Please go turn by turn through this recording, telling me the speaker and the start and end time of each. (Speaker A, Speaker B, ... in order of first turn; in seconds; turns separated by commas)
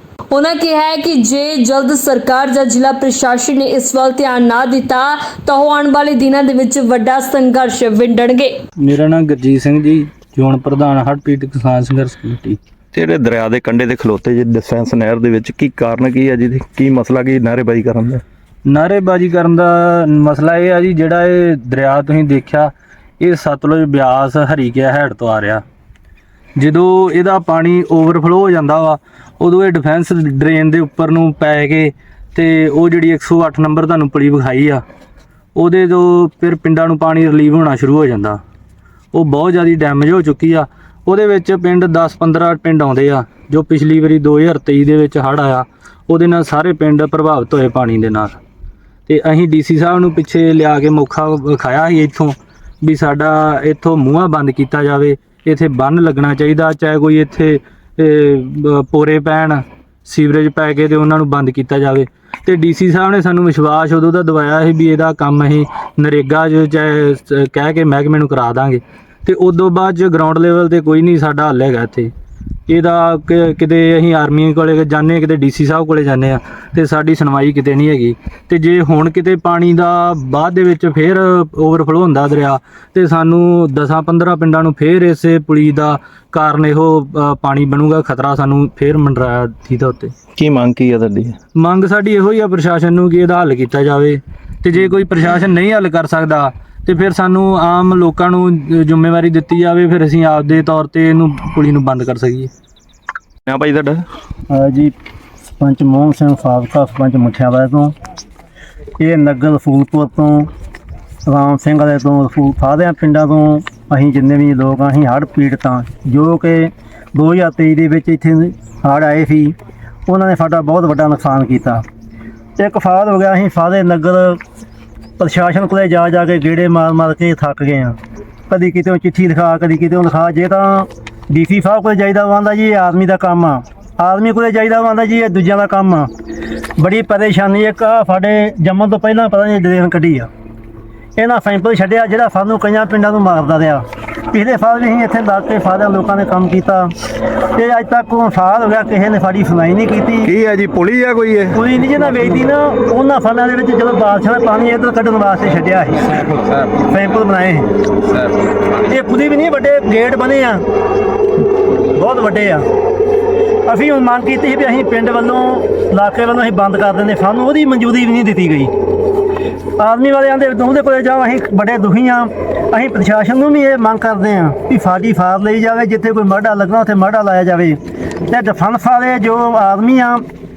Speaker A: 0.3-8.6, Speaker B: 8.8-12.6, Speaker C: 12.9-18.2, Speaker B: 18.7-25.6, Speaker B: 26.6-34.8, Speaker B: 35.5-38.4, Speaker B: 39.1-48.4, Speaker B: 49.1-72.1, Speaker B: 72.7-90.1, Speaker C: 90.4-91.4, Speaker B: 91.5-102.5, Speaker C: 103.5-104.0, Speaker D: 104.5-104.9, Speaker D: 105.6-107.9, Speaker D: 109.0-110.5, Speaker D: 111.3-119.5, Speaker D: 120.1-121.8, Speaker D: 122.6-124.4, Speaker D: 125.2-128.0, Speaker D: 128.5-136.1, Speaker D: 136.8-140.3, Speaker D: 141.2-146.9, Speaker D: 147.6-150.3, Speaker C: 150.2-151.7, Speaker D: 151.5-157.7, Speaker D: 158.9-160.6, Speaker D: 161.9-162.6, Speaker D: 163.7-168.7, Speaker D: 169.8-180.2